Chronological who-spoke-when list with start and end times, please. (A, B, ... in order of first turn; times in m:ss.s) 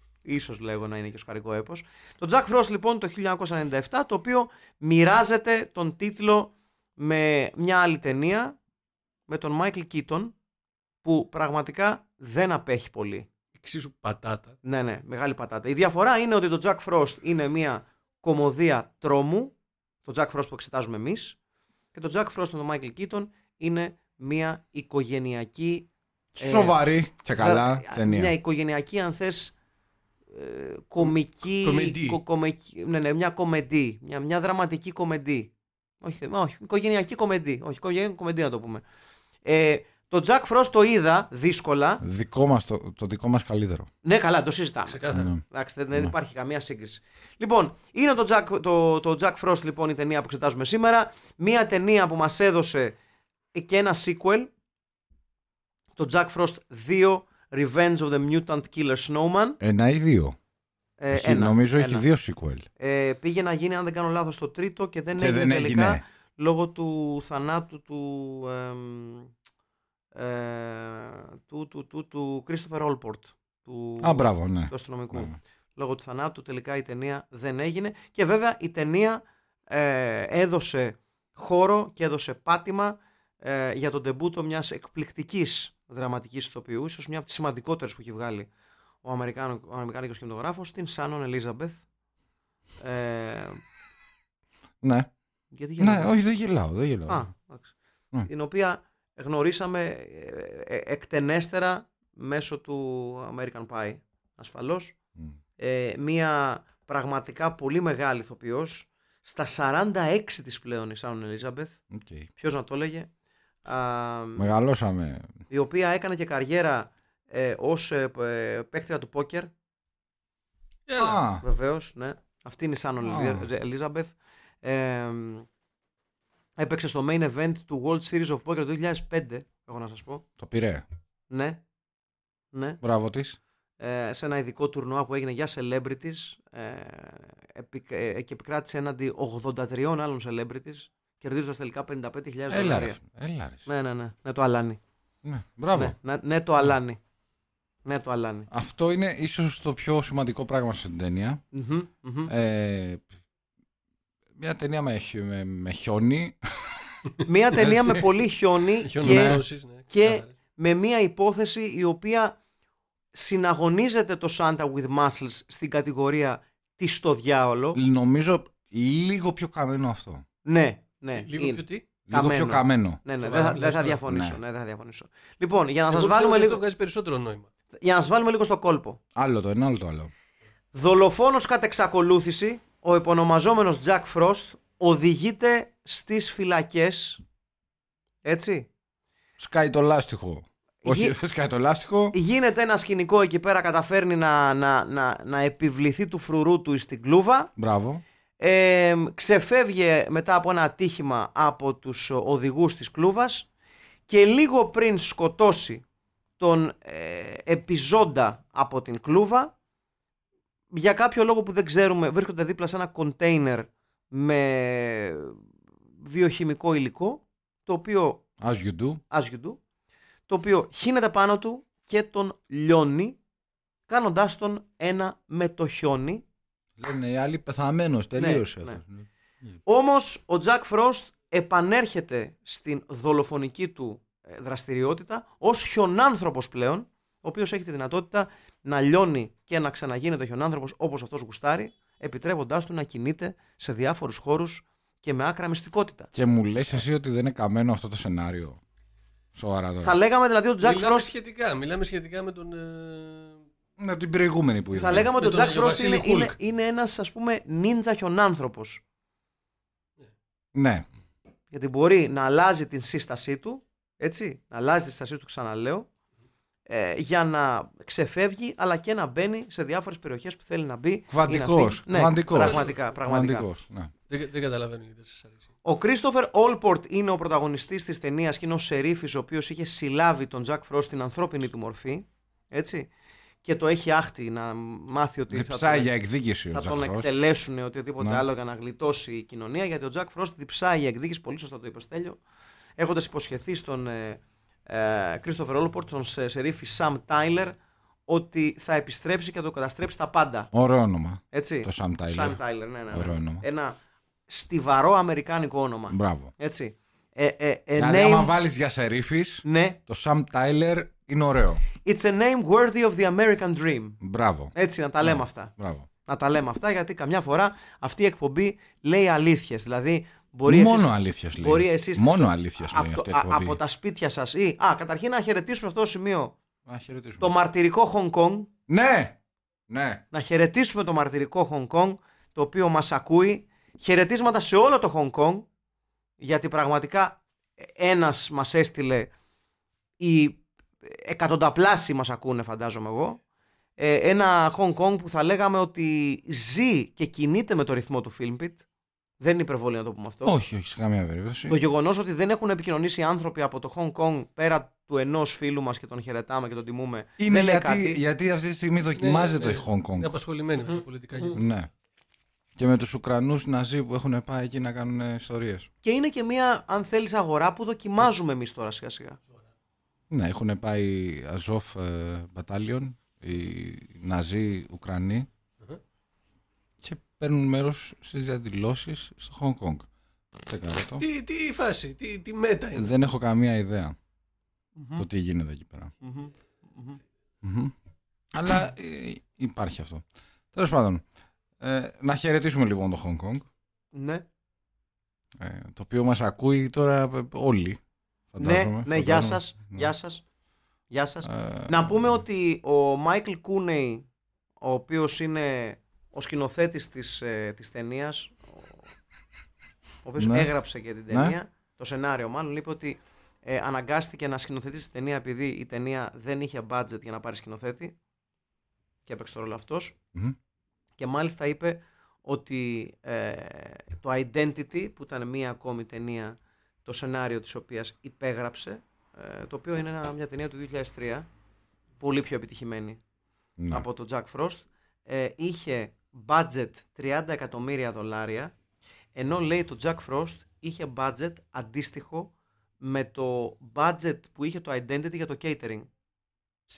0:00.2-0:08.6 A
0:09.3-0:10.4 A
0:11.0-0:13.3 A
0:13.6-0:14.6 B
0:14.6-0:21.4 A
0:21.9-0:26.8 A
0:26.4-0:28.4 C
0:27.3-0:29.5 A
0:30.3-0:38.8 A
0:31.6-0:32.2 B
0:39.4-0:42.0 A
0:42.0-0:43.9 C
0:44.0-0:53.0 A
0:44.9-0:45.3 B
0:45.1-0:45.4 C
0:53.5-0:54.5 A
0:56.0-0:59.6 A
0:59.6-1:00.4 C
1:01.0-1:02.0 A
1:01.1-1:02.7 C
1:02.8-1:09.3 A
1:05.2-1:06.0 C
1:10.2-1:28.5 A
1:14.0-1:15.4 C
1:29.0-1:31.8 A
1:32.8-1:33.6 A
1:34.8-1:35.1 C
1:35.5-1:36.2 A
1:35.8-1:37.3 C
1:37.1-1:37.7 A
1:38.2-1:45.0 A
1:45.6-1:51.8 A
1:51.9-1:52.3 C
1:52.4-1:53.1 A
1:53.6-1:54.5 A
1:54.4-1:55.4 C
1:55.5-1:59.5 A
2:00.9-2:01.2 B
2:01.0-2:01.4 C
2:01.4-2:05.5 A
2:03.0-2:03.5 C
2:06.6-2:10.2 A
2:10.4-2:10.8 C
2:11.3-2:11.6 A
2:12.5-2:12.8 A
2:12.8-2:13.4 C
2:13.8-2:23.0 A
2:22.5-2:23.7 C
2:23.7-2:24.8 A
2:25.2-2:25.9 C
2:25.7-2:27.0 A
2:27.8-2:28.5 A
2:28.5-2:31.4 C
2:31.5-2:32.3 A
2:32.3-2:33.0 C
2:34.4-2:37.0 C
2:37.2-2:42.4 A
2:37.6-2:38.0 B
2:38.8-2:40.3 B
2:39.0-2:39.4 C
2:43.1-2:47.8 A
2:47.8-2:50.2 C
2:50.4-2:56.6 A
2:51.2-2:51.8 B
2:52.1-2:53.0 C
2:53.2-2:54.0 B
2:54.0-2:54.4 C
2:55.9-2:57.5 B
2:57.8-2:59.0 A
2:59.2-3:00.1 C
3:00.7-3:07.2 A
3:08.2-3:08.7 A
3:09.4-3:12.2 C
3:10.8-3:11.2 A
3:12.1-3:17.5 A
3:17.6-3:18.0 C
3:18.4-3:23.5 A
3:24.1-3:25.8 A
3:26.4-3:29.5 A
3:30.7-3:35.4 A
3:36.0-3:38.2 A
3:38.4-3:39.0 C
3:39.1-3:39.6 A
3:40.3-3:43.2 A
3:43.9-3:46.2 A
3:46.8-3:49.1 C
3:48.2-3:48.8 A
3:49.7-4:06.1 A
4:06.1-4:08.6 C
4:09.3-4:10.0 C
4:09.8-4:11.1 A
4:10.6-4:13.4 B
4:13.8-4:15.1 C
4:14.7-4:18.8 A
4:15.2-4:16.4 B
4:20.5-4:20.8 C
4:21.5-4:25.9 A
4:26.7-4:33.5 A
4:31.1-4:33.9 C
4:32.3-4:32.9 B
4:34.1-4:35.5 B
4:35.6-4:42.9 A
4:43.4-4:45.9 A
4:45.3-4:47.1 C
4:46.5-4:52.2 A
4:52.8-4:57.6 A
4:58.1-5:00.5 A
5:00.5-5:02.4 C
5:01.3-5:03.8 A
5:02.9-5:03.4 C
5:04.3-5:08.3 A
5:05.9-5:06.3 C
5:07.8-5:11.6 C
5:09.4-5:09.8 A
5:11.8-5:14.0 A
5:14.0-5:15.9 C
5:14.5-5:15.5 A
5:16.0-5:26.4 A
5:20.5-5:23.6 C
5:26.7-5:27.3 C
5:27.2-5:28.5 A
5:28.7-5:29.2 C
5:29.7-5:30.0 C
5:30.1-5:35.5 A
5:36.2-5:39.1 A
5:40.0-5:43.2 A
5:43.8-5:48.6 A
5:49.2-5:50.4 A
5:50.2-5:51.6 C
5:51.5-5:58.0 A
5:57.2-6:00.2 C
5:59.0-6:01.4 B
6:01.3-6:01.7 C
6:02.6-6:05.7 C
6:05.8-6:09.2 A
6:10.1-6:15.3 C
6:16.8-6:19.9 C
6:20.5-6:21.1 C
6:21.0-6:22.9 B
6:22.8-6:24.0 C
6:24.8-6:25.0 A
6:25.0-6:25.9 C
6:26.0-6:27.0 A
6:27.4-6:27.7 C
6:28.3-6:31.0 C
6:31.6-6:33.5 C
6:33.9-6:34.2 A
6:35.4-6:37.8 C
6:38.3-6:39.9 C
6:38.4-6:40.2 A
6:40.9-6:44.0 A
6:41.2-6:42.1 C
6:44.6-6:48.8 A
6:50.0-6:58.0 A
6:50.2-6:50.5 C
6:51.1-6:51.4 C
6:59.1-7:00.0 A
7:01.0-7:11.3 A
7:12.0-7:13.0 A
7:13.6-7:13.9 C
7:13.7-7:18.5 A
7:19.2-7:25.9 A